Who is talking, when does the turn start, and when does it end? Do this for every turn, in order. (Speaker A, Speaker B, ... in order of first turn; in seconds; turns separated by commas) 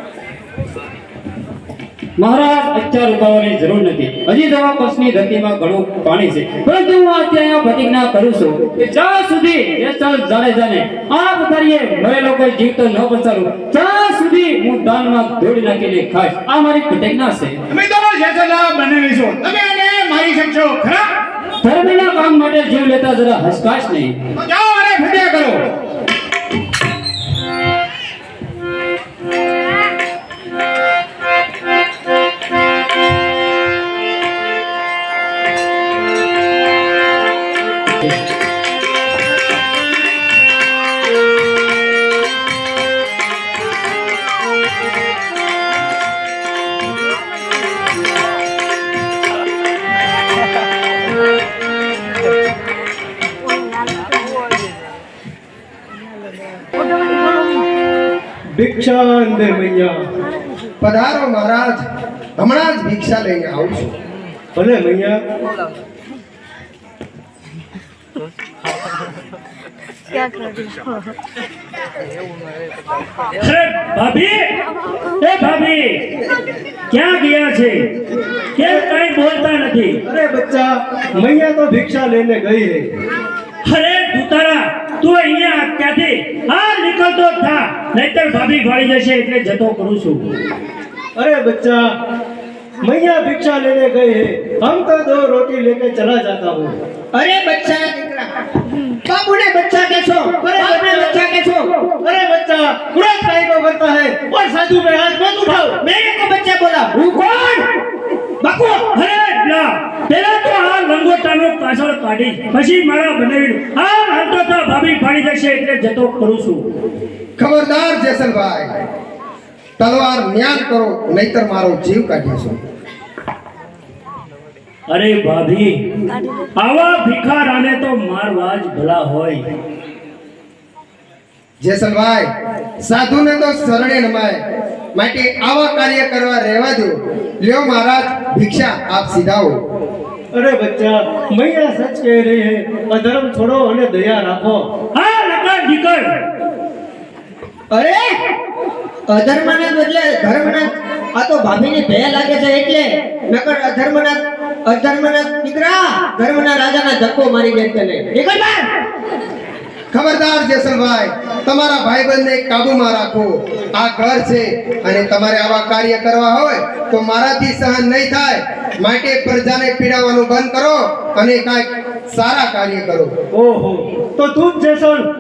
Speaker A: 2.2-17.6, Speaker B: 17.7-21.1, Speaker A: 21.6-24.1, Speaker B: 24.4-25.6, Speaker C: 58.6-60.0, Speaker D: 60.8-61.8, Speaker D: 62.4-63.9, Speaker C: 64.6-65.2, Speaker E: 73.4-74.4, Speaker E: 75.2-75.8, Speaker E: 76.9-77.8, Speaker E: 78.6-80.0, Speaker C: 80.1-82.8, Speaker E: 83.7-90.2, Speaker C: 91.2-91.8, Speaker C: 92.8-96.7, Speaker F: 97.1-98.3, Speaker F: 99.1-101.7, Speaker C: 100.4-101.2, Speaker C: 102.0-105.8, Speaker F: 105.6-107.6, Speaker F: 108.4-108.8, Speaker E: 108.9-116.6, Speaker D: 117.4-118.8, Speaker D: 119.8-122.6, Speaker E: 124.9-125.7, Speaker E: 126.6-129.4, Speaker D: 131.6-132.3, Speaker D: 132.8-134.4, Speaker D: 134.9-139.6, Speaker C: 140.3-144.6, Speaker E: 144.9-146.1, Speaker F: 147.7-148.2, Speaker F: 149.1-158.7, Speaker D: 159.9-173.1, Speaker C: 173.3-175.1